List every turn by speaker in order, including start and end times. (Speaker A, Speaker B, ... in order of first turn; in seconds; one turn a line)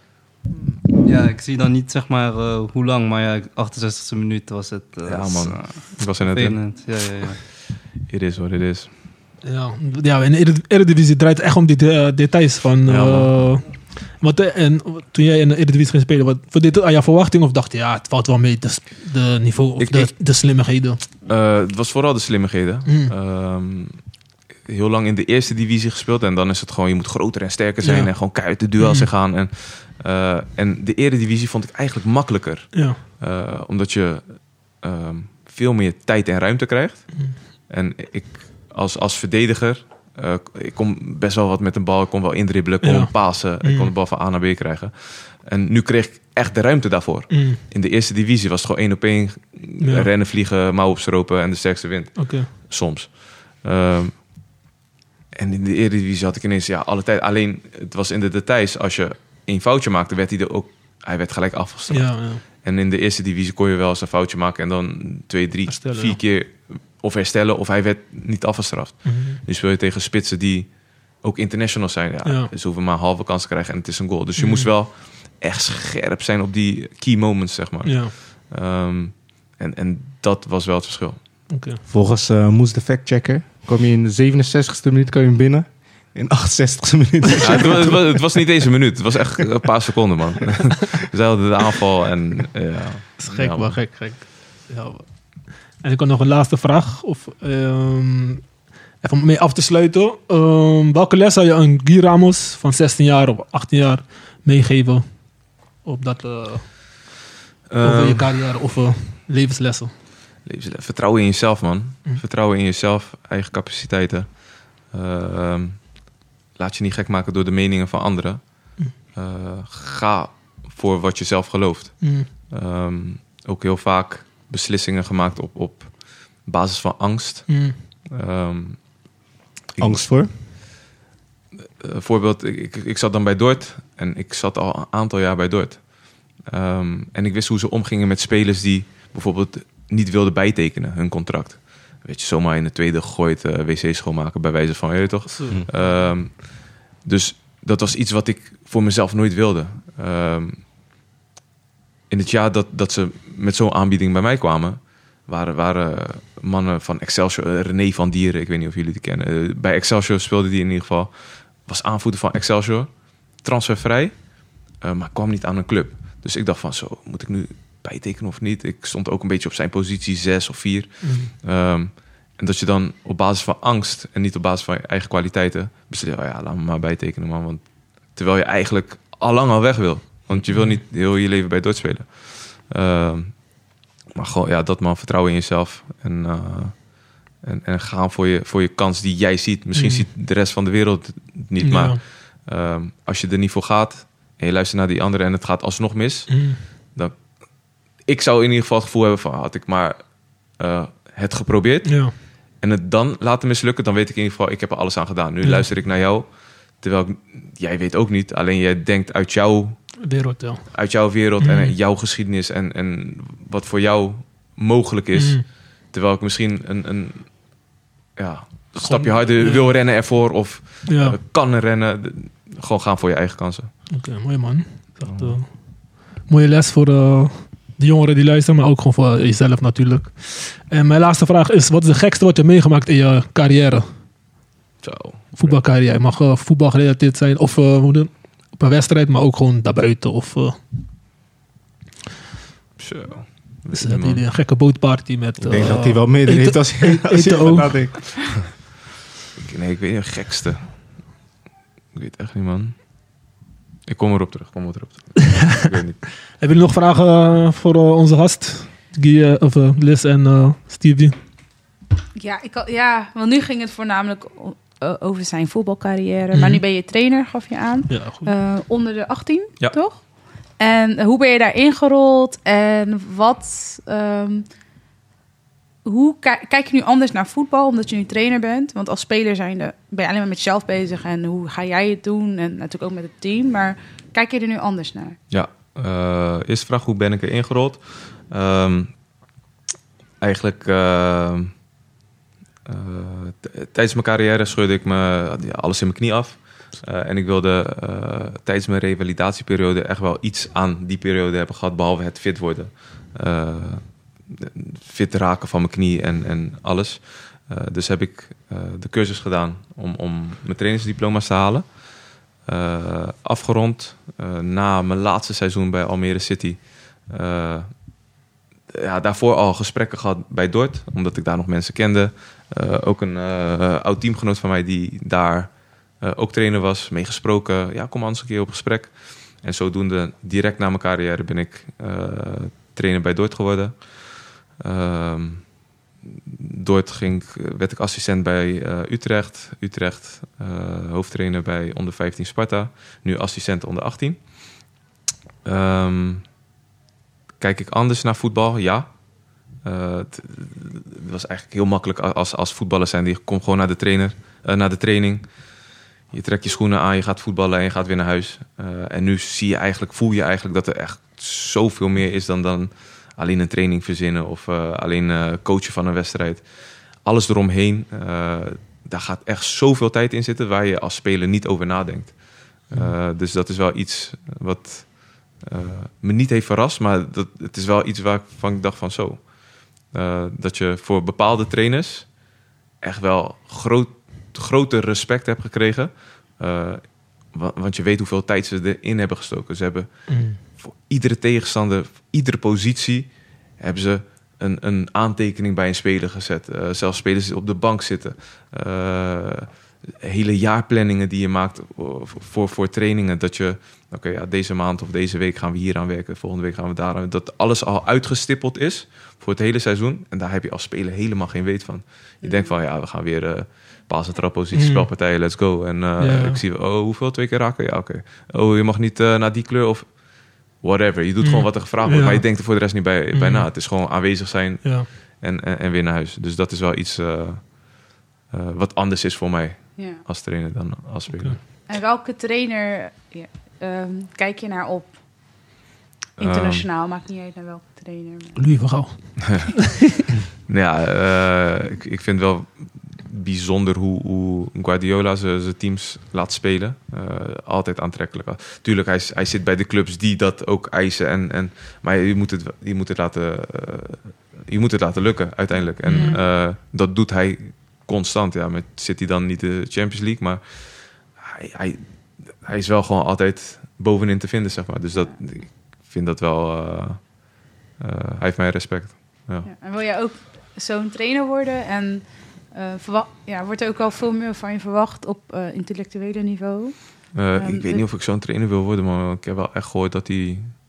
Speaker A: 1.0-7.4
Speaker B: 5.0-6.6
Speaker B: 8.1-8.9
Speaker C: 9.4-21.0
Speaker B: 12.8-13.3
Speaker B: 19.8-20.1
Speaker B: 21.2-24.0
Speaker C: 22.9-23.1
Speaker B: 24.7-34.2
Speaker C: 27.8-28.1
Speaker C: 28.8-29.1
Speaker C: 32.7-33.0
Speaker B: 34.8-54.2
Speaker C: 42.8-43.9
Speaker C: 47.3-47.6
Speaker C: 49.8-50.1
Speaker C: 52.2-52.5
Speaker B: 55.3-70.7
Speaker C: 61.9-62.4
Speaker C: 65.7-66.2
Speaker C: 69.0-69.4
Speaker B: 71.2-81.2
Speaker C: 72.2-72.5
Speaker C: 74.4-74.7
Speaker C: 77.8-78.1
Speaker C: 81.5-81.8
Speaker D: 81.9-88.1
Speaker B: 87.4-93.8
Speaker C: 93.2-95.1
Speaker C: 95.8-98.4
Speaker C: 99.0-105.0
Speaker C: 105.8-106.7
Speaker B: 107.7-108.3
Speaker C: 107.8-109.9
Speaker B: 110.5-114.3
Speaker B: 114.9-115.8
Speaker B: 116.6-128.8
Speaker C: 122.0-122.3
Speaker C: 127.5-127.8
Speaker B: 129.8-130.1
Speaker D: 129.8-130.3
Speaker B: 131.8-135.8
Speaker B: 136.4-150.6
Speaker C: 145.3-146.1
Speaker B: 152.1-162.9
Speaker B: 163.4-164.1
Speaker B: 164.8-177.6
Speaker C: 171.0-171.3
Speaker B: 178.1-183.3
Speaker C: 180.5-180.8
Speaker B: 184.1-186.8
Speaker B: 187.4-197.2
Speaker C: 189.8-190.1
Speaker C: 191.6-192.0
Speaker C: 196.3-196.6
Speaker B: 198.1-200.0
Speaker B: 200.6-206.3
Speaker C: 201.8-202.1
Speaker B: 206.8-209.8
Speaker C: 210.0-210.7
Speaker B: 210.7-217.3
Speaker C: 211.4-211.7
Speaker C: 215.1-215.4
Speaker B: 218.2-223.7
Speaker C: 218.8-219.7
Speaker C: 220.8-221.2
Speaker C: 223.9-225.5
Speaker B: 225.1-225.4
Speaker C: 226.2-233.9
Speaker B: 234.8-235.6
Speaker C: 235.4-240.6
Speaker B: 242.8-244.2
Speaker C: 243.7-247.8
Speaker D: 245.4-248.4
Speaker B: 249.4-250.6
Speaker B: 251.9-252.8
Speaker B: 253.8-256.0
Speaker C: 256.4-261.1
Speaker E: 262.1-270.0
Speaker C: 266.3-266.6
Speaker C: 267.9-268.3
Speaker E: 270.6-274.4
Speaker E: 275.8-285.2
Speaker B: 285.3-288.9
Speaker B: 290.2-291.5
Speaker B: 292.6-303.8
Speaker B: 304.3-311.6
Speaker B: 312.4-317.7
Speaker B: 318.7-325.5
Speaker B: 326.0-328.9
Speaker B: 329.4-333.8
Speaker B: 334.6-335.4
Speaker B: 336.1-344.2
Speaker B: 345.4-346.2
Speaker B: 347.4-348.9
Speaker B: 349.6-355.2
Speaker B: 356.1-366.4
Speaker B: 367.0-379.2
Speaker B: 379.9-382.1
Speaker B: 382.8-399.5
Speaker C: 390.1-390.4
Speaker B: 400.0-420.0
Speaker E: 412.2-412.5
Speaker C: 414.5-414.9
Speaker C: 416.0-416.4
Speaker B: 420.6-431.4
Speaker C: 421.2-422.3
Speaker C: 423.1-423.5
Speaker E: 431.7-434.9
Speaker E: 436.2-438.4
Speaker B: 436.2-436.6
Speaker C: 438.4-440.0
Speaker B: 439.2-439.4
Speaker B: 440.5-461.8
Speaker C: 455.8-456.2
Speaker E: 455.9-456.2
Speaker B: 462.4-467.1
Speaker B: 467.8-469.5
Speaker E: 469.4-477.8
Speaker B: 477.1-480.5